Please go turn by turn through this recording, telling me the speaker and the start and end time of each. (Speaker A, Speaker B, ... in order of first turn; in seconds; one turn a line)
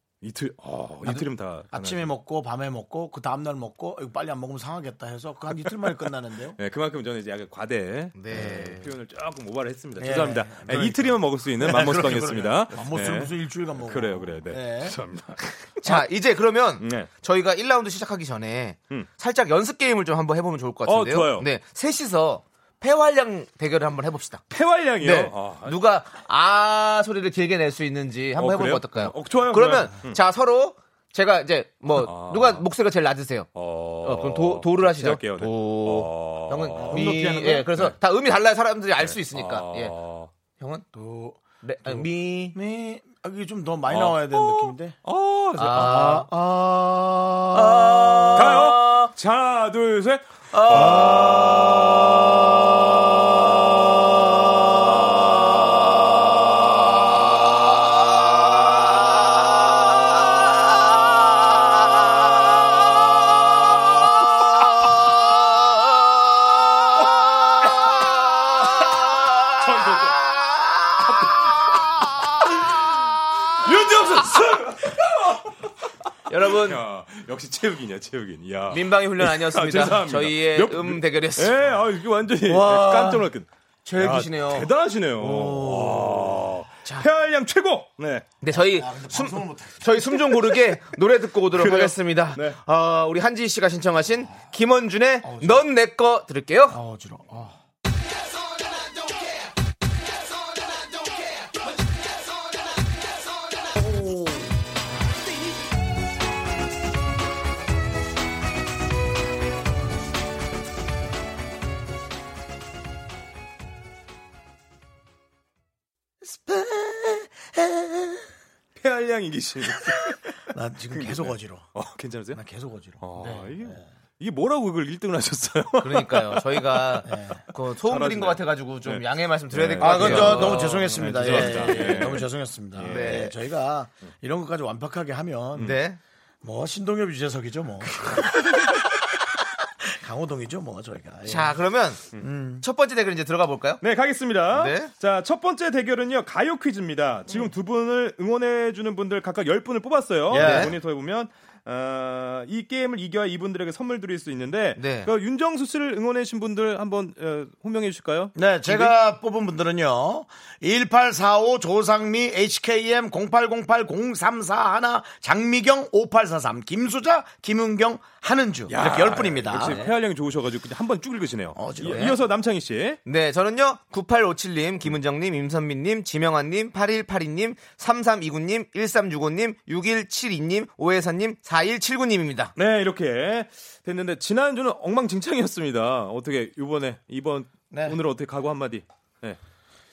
Speaker A: 0.2-2.1
Speaker B: 1.7-6.6
Speaker A: 6.6-13.3
Speaker C: 8.1-8.9
Speaker B: 10.0-15.0
Speaker A: 13.8-16.1
Speaker C: 15.8-24.4
Speaker A: 16.8-17.1
Speaker A: 20.9-21.5
Speaker A: 24.5-25.8
Speaker C: 25.0-33.5
Speaker A: 28.4-30.2
Speaker A: 31.9-32.6
Speaker A: 33.5-38.0
Speaker C: 34.0-39.9
Speaker B: 36.9-37.3
Speaker A: 39.0-40.3
Speaker C: 40.6-40.8
Speaker B: 40.9-41.4
Speaker C: 41.6-42.6
Speaker B: 42.5-45.0
Speaker A: 43.9-46.2
Speaker C: 45.6-46.2
Speaker B: 45.6-48.2
Speaker C: 47.5-49.1
Speaker A: 48.3-52.1
Speaker C: 50.5-51.7
Speaker C: 68.7-71.3
Speaker A: 69.6-70.3
Speaker A: 73.5-88.3
Speaker C: 76.3-76.8
Speaker C: 78.7-81.6
Speaker C: 82.4-83.2
Speaker C: 83.8-84.7
Speaker C: 85.2-86.1
Speaker B: 85.3-86.1
Speaker C: 88.4-96.8
Speaker B: 88.5-89.9
Speaker A: 91.5-92.6
Speaker B: 95.2-95.6
Speaker B: 96.7-97.5
Speaker B: 104.0-104.5
Speaker B: 116.2-118.2
Speaker A: 118.8-120.2
Speaker B: 119.8-121.7
Speaker A: 120.9-122.4
Speaker B: 122.3-123.0
Speaker A: 123.0-127.1
Speaker C: 123.2-123.5
Speaker C: 125.8-132.2
Speaker B: 127.0-127.4
Speaker A: 127.8-133.3
Speaker B: 129.8-135.7
Speaker C: 132.8-133.3
Speaker C: 135.6-136.0
Speaker B: 136.4-139.0
Speaker B: 139.8-141.6
Speaker C: 141.3-143.8
Speaker B: 142.2-142.6
Speaker A: 143.8-158.9
Speaker C: 144.5-144.9
Speaker B: 150.3-150.7
Speaker C: 150.3-150.7
Speaker C: 154.8-155.1
Speaker B: 158.3-169.8
Speaker A: 168.7-173.0
Speaker C: 169.6-169.9
Speaker B: 171.5-172.2
Speaker C: 171.9-172.2
Speaker C: 173.0-182.5
Speaker A: 182.6-189.4
Speaker B: 187.7-188.0